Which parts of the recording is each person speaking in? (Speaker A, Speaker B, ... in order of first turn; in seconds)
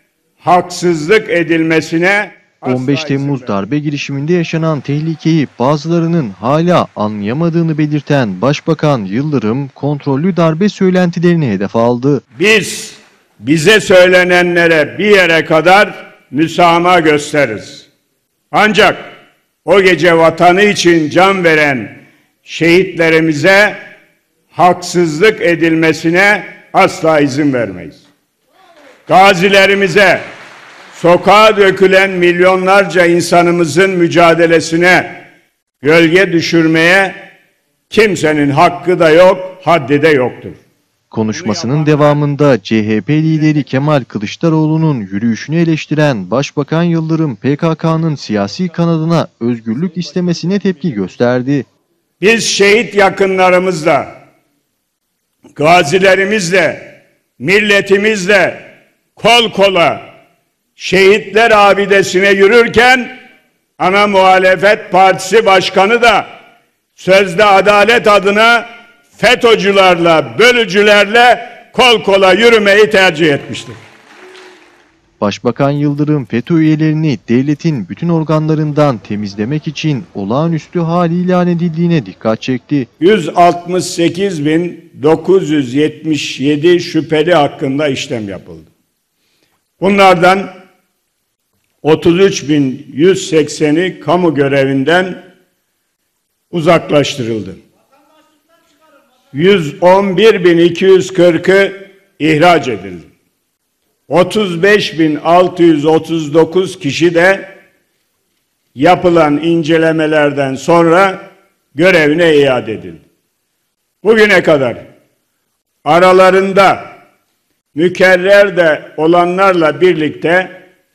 Speaker A: 0.4-3.6, 12.3-17.9, 18.5-19.1, 19.6-23.8, 24.5-28.1, 29.1-30.2, 30.9-35.2, 35.8-37.2, 37.9-40.6, 41.3-42.2, 52.2-54.2, 55.5-60.0, 60.8-63.1, 63.8-66.2, 67.0-73.8, 83.0-88.7, 89.8-90.5, 91.8-95.2, 96.5-97.6, 99.3-103.1, 104.1-107.5, 108.7-113.0, 114.0-114.8, 115.8-116.9, 117.7-120.6
Speaker B: 2.6-12.2, 41.1-51.6, 75.2-82.9